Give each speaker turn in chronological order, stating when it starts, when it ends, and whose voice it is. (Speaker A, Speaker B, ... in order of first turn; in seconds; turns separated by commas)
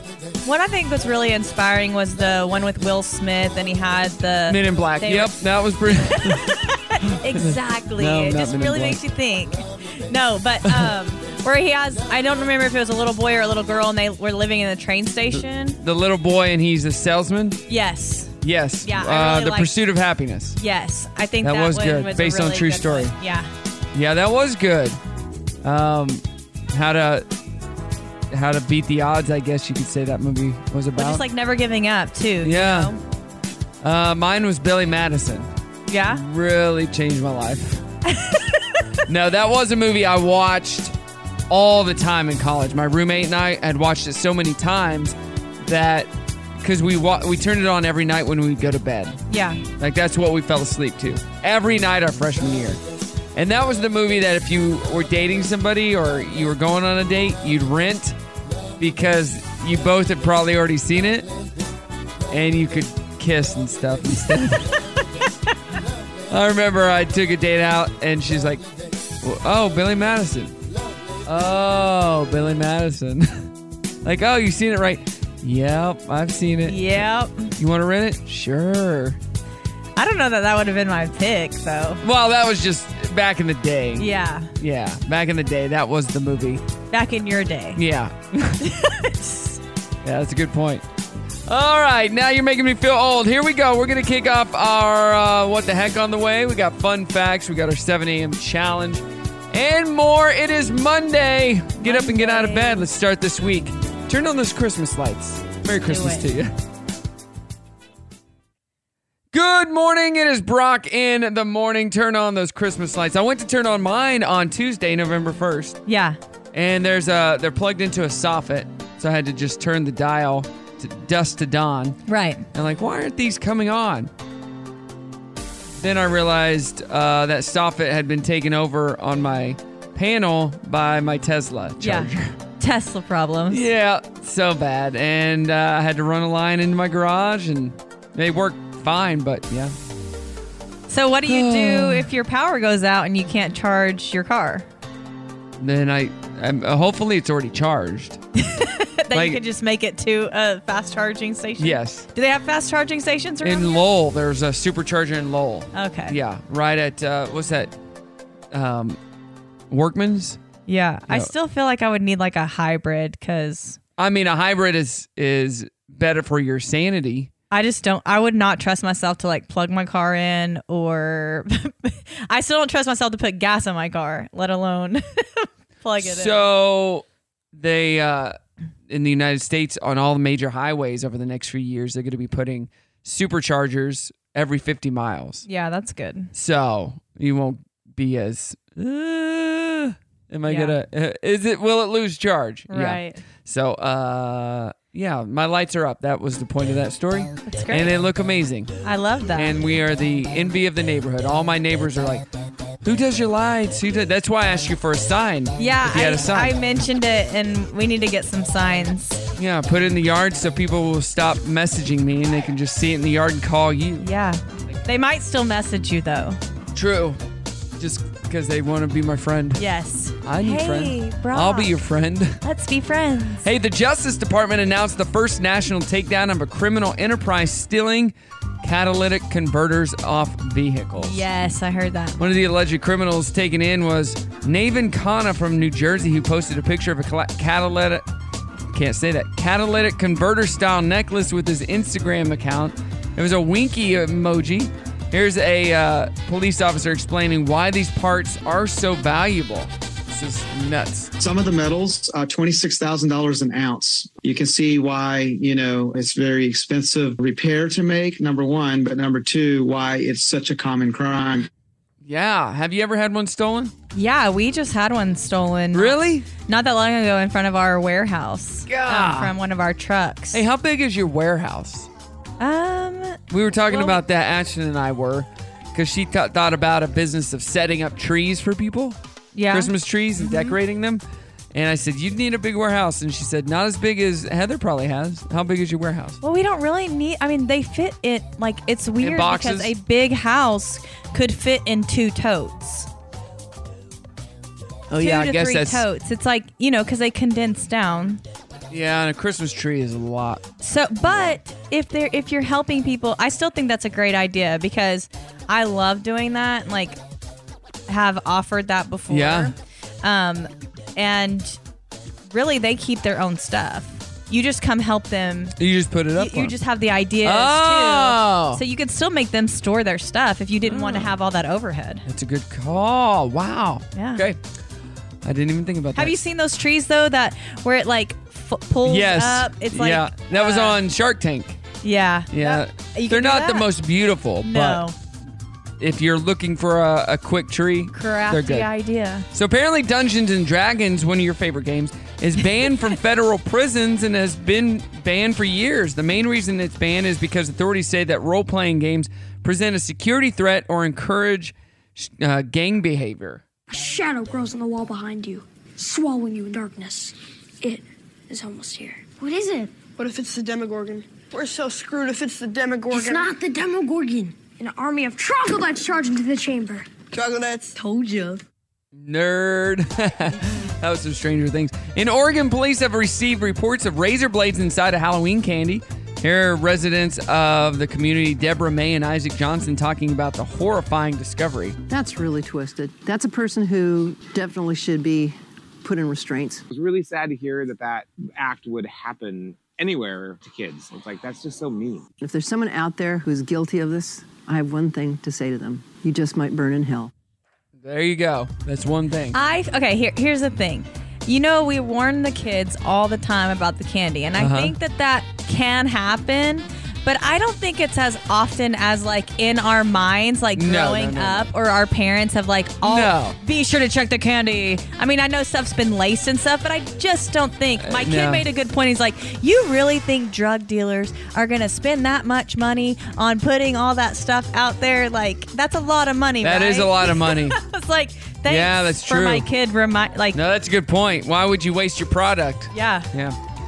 Speaker A: 0.4-5.3, Speaker B: 4.5-9.0, Speaker A: 5.9-15.8, Speaker B: 10.7-10.9, Speaker B: 15.3-17.6, Speaker A: 17.7-19.7, Speaker B: 18.4-20.6, Speaker A: 20.6-23.5, Speaker B: 21.4-23.1, Speaker B: 23.9-25.0, Speaker B: 25.6-27.2, Speaker B: 28.3-31.2, Speaker A: 30.9-33.0, Speaker B: 32.4-32.9, Speaker B: 33.8-35.5, Speaker A: 35.9-36.2, Speaker B: 36.1-37.8, Speaker A: 38.0-38.9, Speaker B: 39.1-40.9, Speaker B: 41.5-49.2, Speaker A: 49.3-49.6, Speaker B: 49.8-52.8, Speaker B: 53.3-58.1, Speaker B: 58.8-61.3, Speaker B: 62.3-64.8, Speaker B: 66.3-68.6, Speaker B: 69.2-70.5, Speaker B: 71.2-73.5, Speaker B: 74.0-79.2, Speaker A: 76.7-77.5, Speaker A: 80.0-82.0, Speaker B: 82.0-84.1, Speaker A: 84.0-84.5, Speaker B: 84.6-86.6, Speaker A: 86.9-87.8, Speaker B: 87.7-88.6, Speaker A: 88.6-89.6, Speaker B: 90.0-90.8, Speaker B: 91.5-106.5, Speaker A: 101.8-102.9, Speaker A: 105.8-106.3, Speaker B: 109.3-115.8, Speaker A: 115.8-116.2, Speaker B: 116.5-122.0, Speaker A: 122.1-122.5, Speaker B: 122.5-124.1, Speaker B: 125.8-132.3, Speaker A: 131.8-133.6, Speaker B: 133.5-139.7, Speaker A: 140.9-144.7, Speaker B: 141.2-142.1, Speaker B: 145.6-148.2, Speaker A: 148.3-153.8, Speaker B: 149.1-149.4, Speaker B: 151.6-152.0, Speaker B: 153.4-157.7, Speaker A: 155.7-156.2, Speaker B: 158.5-159.0, Speaker B: 159.7-160.4, Speaker A: 160.7-163.8, Speaker B: 164.0-167.3, Speaker A: 167.5-176.5, Speaker B: 176.0-178.4, Speaker B: 178.9-185.4, Speaker A: 185.4-186.3, Speaker B: 186.3-198.7, Speaker A: 190.5-190.7, Speaker A: 192.7-193.2, Speaker A: 197.5-197.9, Speaker A: 198.8-199.5, Speaker B: 199.3-202.2, Speaker B: 202.8-206.5, Speaker A: 205.6-209.2, Speaker B: 209.4-214.1, Speaker A: 214.0-216.4, Speaker B: 216.7-217.2, Speaker B: 217.8-219.6, Speaker A: 219.6-221.7, Speaker B: 220.2-222.4, Speaker A: 222.4-223.4, Speaker B: 223.4-231.2, Speaker A: 231.0-232.2, Speaker B: 232.2-238.0, Speaker B: 238.7-251.1, Speaker C: 251.2-261.5, Speaker B: 262.0-263.7, Speaker A: 263.9-270.4, Speaker B: 265.7-266.3, Speaker B: 268.7-269.3, Speaker B: 270.3-271.9, Speaker A: 272.4-274.0, Speaker B: 273.3-279.0, Speaker A: 279.3-280.6, Speaker B: 279.5-286.2, Speaker A: 286.2-292.9, Speaker B: 289.0-289.7, Speaker B: 294.9-295.8, Speaker A: 295.0-298.2, Speaker B: 298.7-300.4, Speaker A: 300.6-307.0, Speaker B: 301.1-301.3, Speaker A: 307.9-311.6, Speaker B: 309.1-309.5, Speaker A: 312.3-315.6, Speaker B: 315.6-316.5, Speaker A: 316.2-322.0, Speaker B: 317.2-318.6, Speaker B: 320.6-321.1, Speaker B: 322.1-324.4, Speaker A: 323.9-324.2, Speaker B: 325.2-326.2, Speaker A: 325.9-330.8, Speaker B: 328.8-331.6, Speaker A: 331.8-333.7, Speaker B: 332.3-334.8, Speaker A: 334.4-334.9, Speaker B: 335.8-338.7, Speaker A: 337.9-339.2, Speaker B: 339.3-353.4, Speaker D: 353.7-359.9, Speaker E: 359.9-363.3, Speaker D: 362.9-367.0, Speaker E: 367.1-367.7, Speaker D: 367.7-368.4, Speaker B: 368.9-381.8, Speaker F: 381.9-386.6, Speaker G: 386.7-392.1, Speaker F: 392.2-397.1, Speaker B: 397.8-399.4, Speaker A: 399.3-430.4, Speaker B: 404.4-404.7, Speaker B: 410.5-411.5, Speaker B: 412.8-413.4, Speaker B: 417.8-418.4, Speaker B: 426.4-427.6, Speaker B: 428.4-429.4, Speaker B: 430.3-433.4, Speaker A: 432.7-433.1